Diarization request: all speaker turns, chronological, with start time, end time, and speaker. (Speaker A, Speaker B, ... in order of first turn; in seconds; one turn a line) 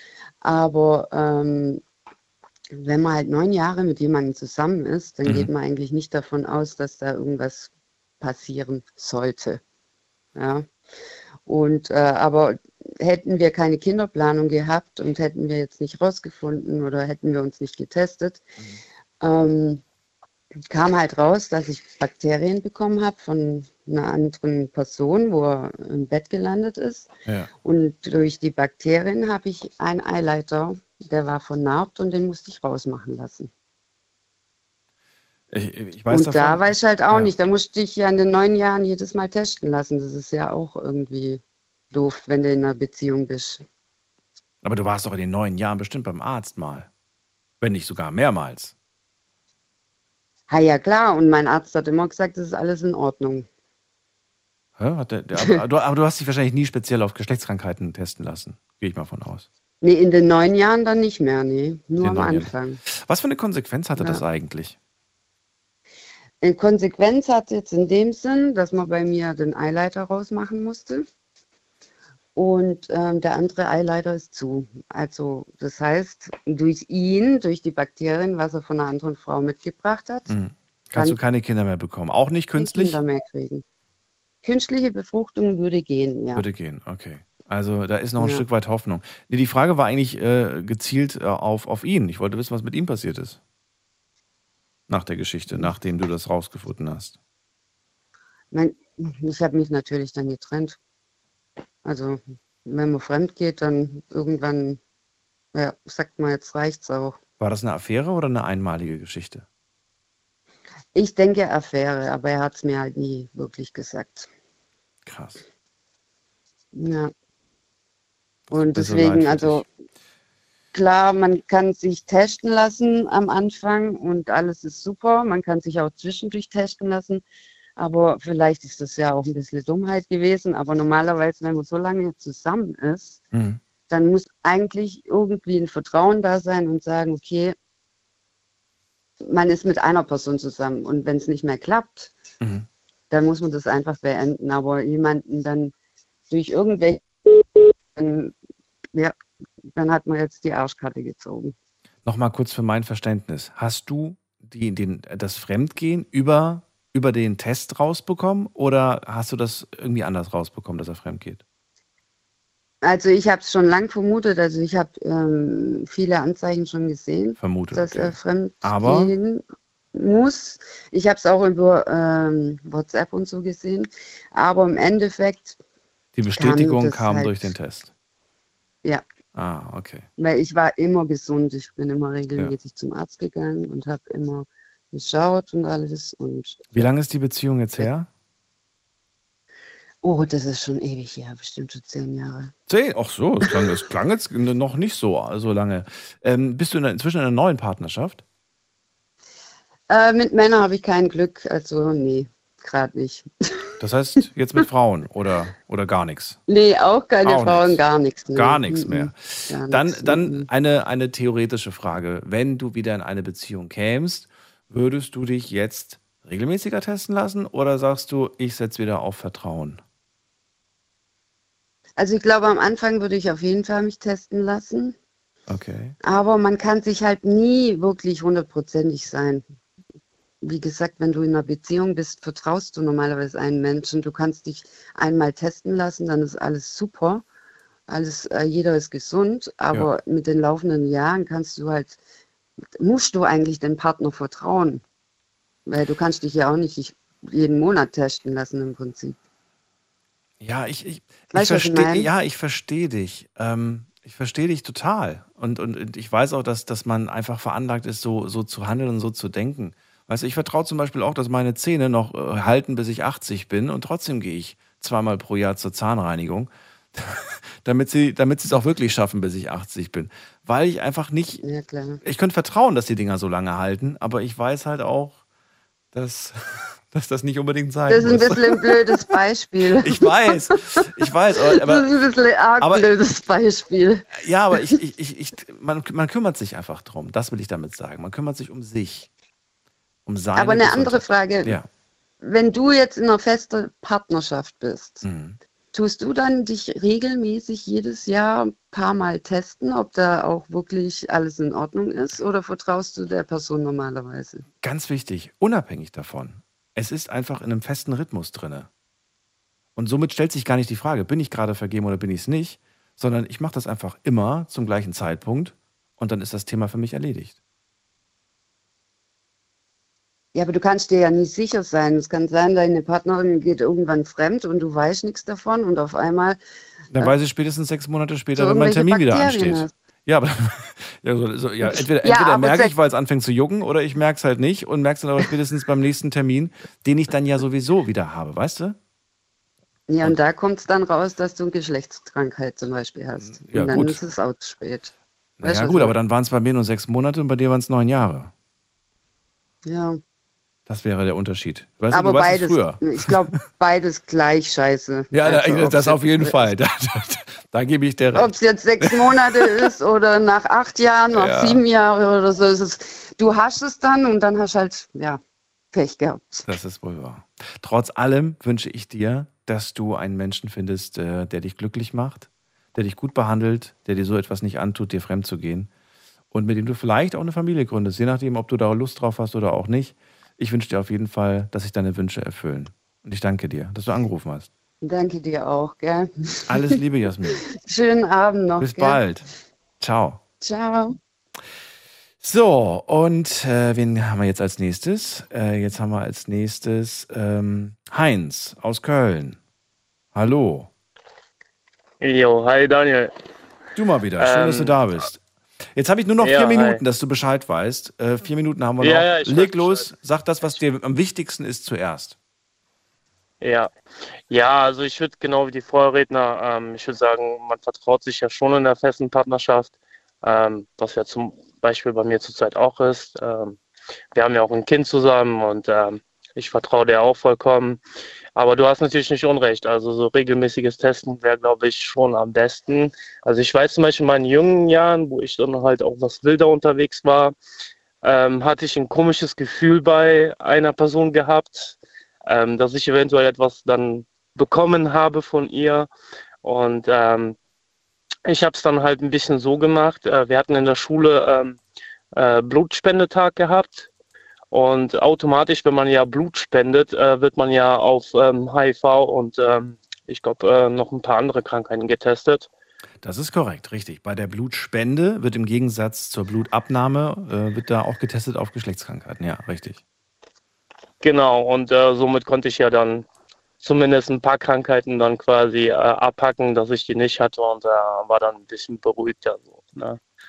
Speaker A: 0.4-1.8
Speaker A: 2.7-9.6
Speaker A: 10.3-10.7
Speaker A: 11.5-18.4
Speaker A: 19.2-19.8
Speaker A: 20.7-27.1
Speaker A: 27.6-33.5
Speaker B: 35.5-37.3
Speaker A: 36.1-41.4
Speaker A: 41.9-43.6
Speaker B: 44.6-46.9
Speaker B: 47.6-48.7
Speaker A: 50.5-53.5
Speaker B: 54.8-59.5
Speaker A: 59.8-62.8
Speaker B: 62.0-64.8
Speaker A: 64.0-64.2
Speaker A: 66.4-71.0
Speaker A: 72.3-80.3
Speaker B: 80.3-83.0
Speaker A: 82.6-83.6
Speaker A: 84.4-86.4
Speaker B: 86.3-93.4
Speaker A: 88.2-88.4
Speaker B: 94.9-97.2
Speaker A: 98.5-100.8
Speaker A: 101.8-104.8
Speaker A: 105.5-107.2
Speaker B: 107.4-109.5
Speaker A: 110.9-114.3
Speaker B: 115.0-115.4
Speaker A: 116.7-117.1
Speaker B: 118.5-119.6
Speaker A: 118.5-119.6
Speaker A: 120.7-127.2
Speaker A: 127.8-133.2
Speaker B: 133.3-133.6
Speaker A: 133.9-137.6
Speaker A: 139.2-142.1
Speaker B: 142.4-142.7
Speaker A: 143.1-145.7
Speaker A: 146.3-148.3
Speaker A: 149.7-151.5
Speaker B: 152.0-161.4
Speaker A: 162.8-169.4
Speaker B: 167.4-169.1
Speaker A: 169.9-175.6
Speaker B: 176.1-177.9
Speaker A: 176.3-177.3
Speaker B: 179.3-180.1
Speaker A: 180.2-186.9
Speaker B: 186.7-188.1
Speaker A: 190.0-192.5
Speaker B: 192.7-198.2
Speaker A: 199.9-203.3
Speaker B: 203.8-206.4
Speaker A: 206.5-210.5
Speaker B: 207.2-207.8
Speaker B: 208.3-219.8
Speaker A: 222.0-224.9
Speaker B: 225.5-225.9
Speaker A: 226.0-229.4
Speaker A: 230.4-237.2
Speaker A: 237.9-242.0
Speaker A: 242.8-244.8
Speaker A: 245.7-249.2
Speaker B: 250.4-271.4
Speaker A: 251.3-252.1
Speaker A: 271.4-272.0
Speaker B: 272.0-275.2
Speaker B: 275.9-278.9
Speaker A: 277.9-280.5
Speaker B: 279.7-281.8
Speaker A: 281.5-284.1
Speaker B: 282.6-282.9
Speaker B: 284.1-289.1
Speaker B: 290.1-291.7
Speaker A: 290.4-291.6
Speaker A: 292.2-295.0
Speaker B: 295.0-295.4
Speaker A: 295.7-304.4
Speaker B: 304.6-308.7
Speaker B: 309.8-317.4
Speaker A: 320.3-326.4
Speaker B: 326.9-338.8
Speaker A: 328.3-329.7
Speaker A: 331.6-332.7
Speaker A: 339.9-345.9
Speaker B: 343.2-344.1
Speaker B: 345.4-348.3
Speaker A: 349.6-350.0
Speaker B: 350.7-353.4
Speaker A: 351.9-356.5
Speaker B: 355.1-359.6
Speaker A: 358.1-365.2
Speaker B: 361.1-361.6
Speaker A: 365.7-366.5
Speaker B: 366.5-375.7
Speaker B: 376.3-384.5
Speaker A: 384.8-386.8
Speaker B: 386.5-387.4
Speaker A: 387.3-389.0
Speaker B: 388.6-389.2
Speaker B: 389.8-390.2
Speaker A: 390.4-391.0
Speaker B: 392.2-399.4
Speaker B: 400.1-400.7
Speaker C: 402.0-403.1
Speaker B: 403.7-405.2
Speaker C: 404.2-404.8
Speaker B: 405.7-412.1
Speaker C: 406.2-406.8
Speaker C: 408.8-409.8
Speaker C: 413.4-413.7
Speaker C: 414.3-423.6
Speaker C: 424.1-427.8
Speaker C: 428.3-437.3
Speaker C: 438.0-445.9
Speaker C: 446.4-447.4
Speaker C: 448.2-451.6
Speaker C: 452.1-453.9
Speaker C: 454.5-462.5
Speaker B: 463.0-469.8
Speaker C: 471.0-473.1
Speaker C: 473.6-480.0